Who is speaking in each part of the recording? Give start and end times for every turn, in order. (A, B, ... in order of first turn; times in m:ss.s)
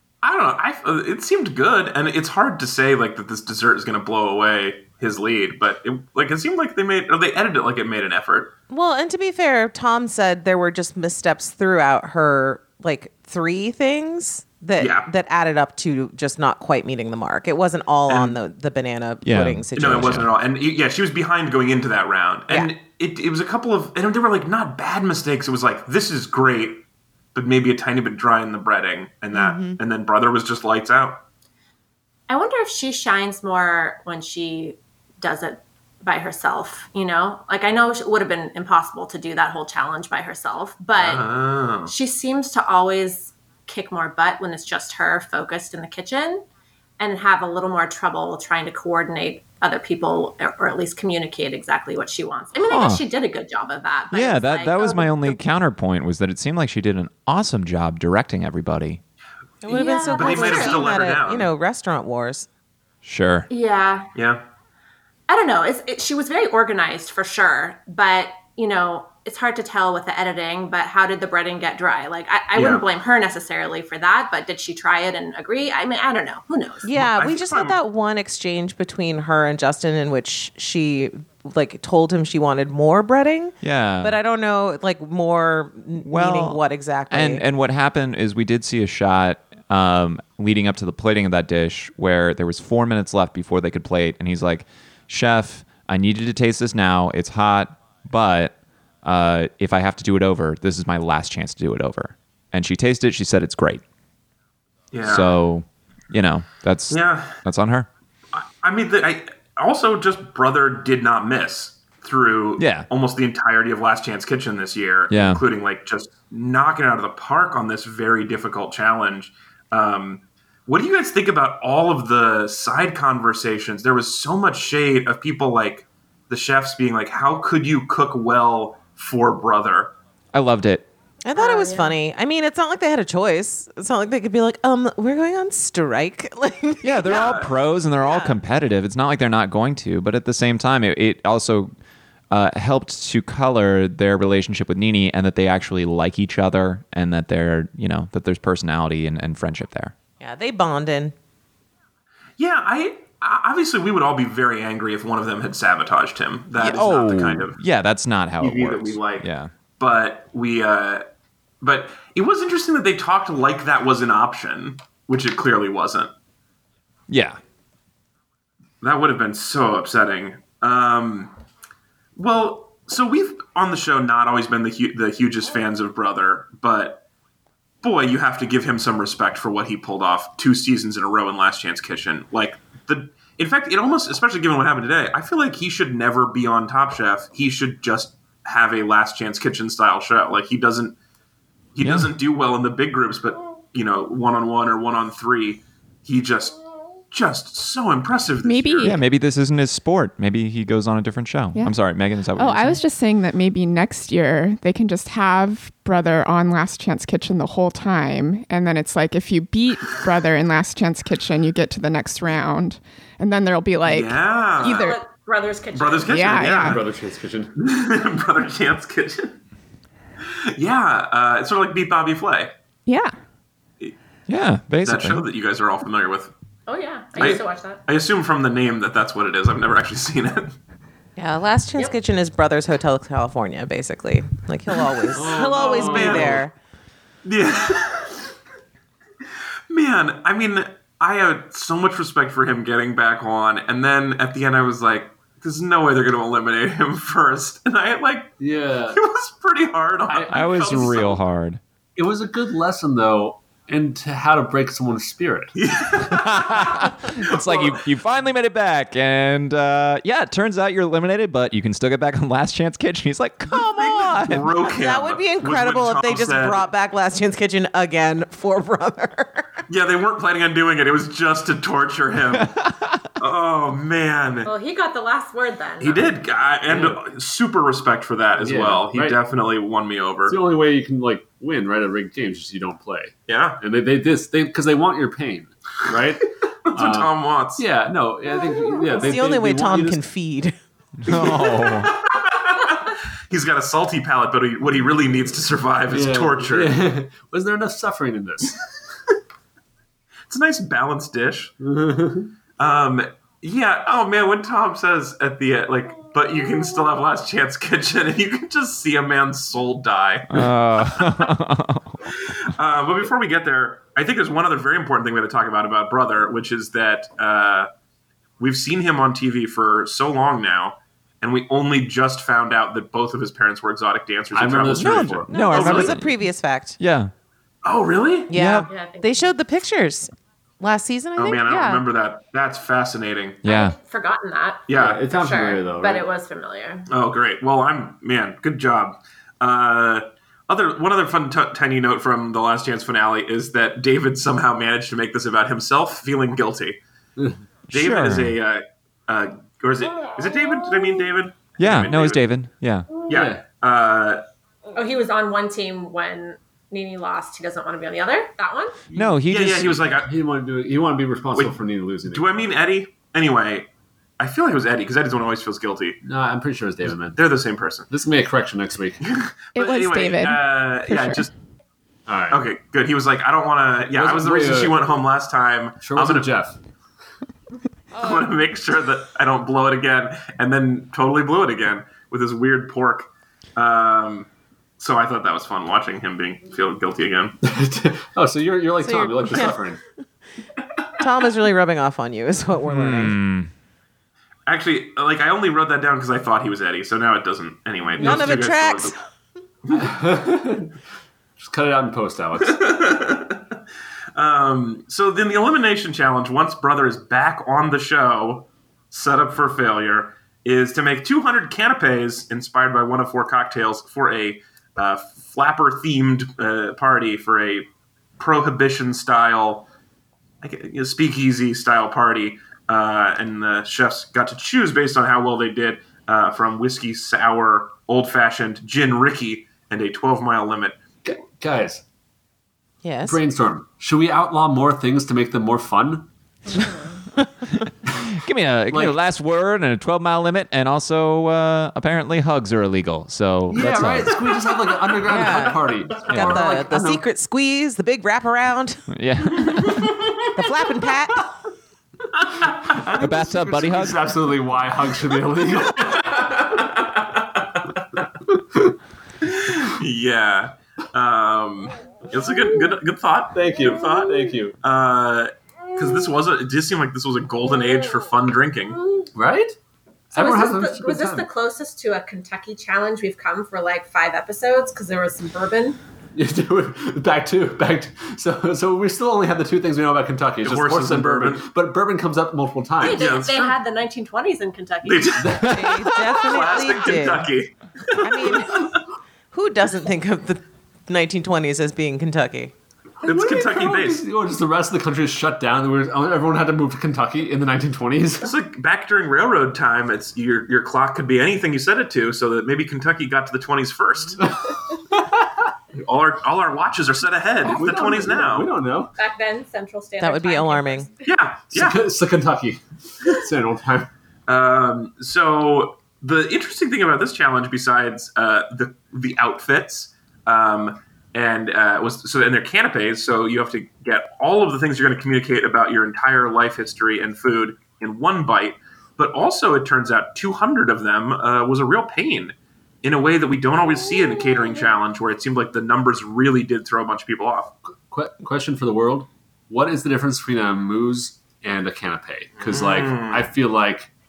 0:00.2-0:08.5 A
0:08.7-0:20.3 B
0:14.8-0:15.1 A
0:18.1-0:18.4 A
0:19.2-0:20.3 C
0:19.8-0:31.2 A
0:29.3-0:29.8 B
0:32.3-0:41.3 D
0:40.9-0:41.9 A
0:41.9-0:46.5 D
0:47.0-0:55.4 D
0:52.7-0:53.0 C
0:54.1-0:59.0 C
0:59.6-1:02.5 B
0:59.7-1:00.8 D
1:00.1-1:01.5 A
1:03.0-1:03.5 C
1:03.5-1:04.1 D
1:04.1-1:04.4 A
1:05.3-1:16.9 D
1:12.6-1:12.8 A
1:16.8-1:27.4 B
1:16.9-1:17.8 A
1:23.6-1:24.1 C
1:26.0-1:26.6 C
1:27.1-1:43.8 C
1:44.9-1:45.4 A
1:45.0-1:47.9 C
1:46.9-1:47.4 A
1:48.3-2:09.9 A
1:52.6-1:52.9 C
1:55.1-1:55.4 C
2:10.3-2:10.9 C
2:11.2-2:17.5 B
2:11.4-2:12.0 D
2:16.8-2:21.7 C
2:17.1-2:17.5 A
2:18.0-2:18.4 B
2:22.3-2:29.9 C
2:30.2-2:31.1 B
2:32.4-2:37.6 A
2:36.6-2:39.5 C
2:38.4-2:41.0 A
2:41.6-2:46.1 A
2:47.1-2:47.4 C
2:48.8-2:51.3 A
2:52.2-2:57.0 A
2:57.8-3:11.0 A
3:11.8-3:16.6 A
3:11.8-3:12.1 C
3:17.1-3:19.0 A
3:18.4-3:19.0 E
3:18.8-3:22.8 C
3:22.4-3:35.0 E
3:33.9-3:35.0 A
3:34.6-3:36.3 D
3:35.7-3:36.8 A
3:36.1-3:36.8 E
3:36.3-3:37.5 F
3:37.6-3:39.4 A
3:40.3-3:42.5 A
3:42.9-3:43.1 E
3:44.3-3:45.2 C
3:44.8-3:46.3 A
3:46.7-3:47.8 D
3:47.2-3:50.5 A
3:51.2-3:56.5 B
3:55.1-3:56.4 F
3:55.2-3:56.4 A
3:57.2-3:58.2 A
3:59.7-4:08.4 A
4:08.4-4:09.0 F
4:08.9-4:11.2 A
4:10.1-4:11.1 F
4:10.3-4:11.6 C
4:12.0-4:15.5 F
4:15.5-4:17.8 A
4:16.0-4:24.5 C
4:23.5-4:29.5 B
4:23.6-4:26.7 A
4:29.7-4:32.6 A
4:33.2-4:34.5 A
4:34.4-4:36.1 D
4:35.8-4:40.4 A
4:36.6-4:37.0 F
4:38.4-4:39.2 F
4:40.2-4:50.0 F
4:43.3-4:43.6 A
4:46.7-4:47.6 A
4:48.9-4:50.5 B
4:51.0-4:51.9 C
4:51.1-4:56.7 A
4:55.9-4:58.6 F
5:00.3-5:01.5 A
5:01.6-5:02.3 F
5:02.6-5:11.3 A
5:10.3-5:12.0 C
5:12.1-5:17.7 A
5:18.4-5:26.0 A
5:24.3-5:25.9 F
5:24.8-5:26.3 C
5:24.8-5:26.8 B
5:26.8-5:27.1 C
5:27.6-5:28.4 A
5:28.3-5:31.8 B
5:28.3-5:28.7 C
5:28.6-5:29.3 D
5:31.2-5:33.4 A
5:33.4-5:33.8 C
5:33.4-5:36.9 D
5:34.7-5:35.0 A
5:34.7-5:36.1 F
5:36.9-5:46.8 A
5:47.7-5:48.4 C
5:47.7-5:52.2 A
5:51.6-5:53.0 C
5:53.1-5:53.4 F
5:53.1-5:54.2 A
5:54.7-5:58.9 D
5:58.9-5:59.8 C
5:59.3-6:00.1 A
6:00.0-6:02.3 F
6:01.3-6:03.7 A
6:04.2-6:06.0 A
6:06.0-6:07.2 F
6:07.1-6:07.9 A
6:07.9-6:09.0 F
6:09.0-6:11.3 A
6:09.5-6:11.2 E
6:12.1-6:12.4 F
6:12.3-6:16.3 A
6:13.9-6:14.8 F
6:15.8-6:16.6 F
6:17.9-6:27.4 A
6:27.4-6:29.8 F
6:28.8-6:29.6 B
6:31.0-6:33.2 B
6:32.7-6:33.5 C
6:34.5-6:39.0 A
6:38.0-6:39.0 B
6:38.0-6:38.4 F
6:39.6-6:39.9 A
6:39.7-6:40.8 F
6:41.4-6:42.6 F
6:42.4-6:43.5 A
6:44.1-6:59.7 A
7:00.4-7:10.8 A
7:11.0-7:11.8 F
7:12.8-7:13.2 B
7:13.0-7:16.1 F
7:17.6-7:24.3 C
7:18.7-7:19.0 F
7:23.5-7:27.0 F
7:25.0-7:28.9 B
7:26.1-7:26.4 C
7:28.9-7:30.0 C
7:30.3-7:31.2 B
7:32.6-7:36.4 F
7:32.9-7:34.2 C
7:35.8-7:37.5 A
7:38.4-7:38.7 F
7:39.2-7:43.8 A
7:43.3-7:44.6 F
7:44.6-7:48.8 A
7:49.1-7:49.5 F
7:50.1-7:51.3 F
7:50.1-7:55.8 D
7:56.1-8:03.1 F
8:00.4-8:01.5 A
8:02.8-8:05.4 D
8:02.8-8:03.6 A
8:04.8-8:08.8 A
8:05.2-8:05.6 F
8:05.4-8:07.3 B
8:08.0-8:08.7 B
8:09.3-8:12.5 B
8:13.0-8:18.3 F
8:13.0-8:14.0 A
8:18.2-8:24.2 A
8:24.2-8:25.5 F
8:25.7-8:28.5 A
8:27.4-8:28.9 F
8:29.0-8:30.9 D
8:30.0-8:30.9 B
8:31.0-8:31.8 A
8:31.5-8:33.9 F
8:34.3-8:57.5 A
8:57.9-9:03.9 F
9:02.4-9:03.3 A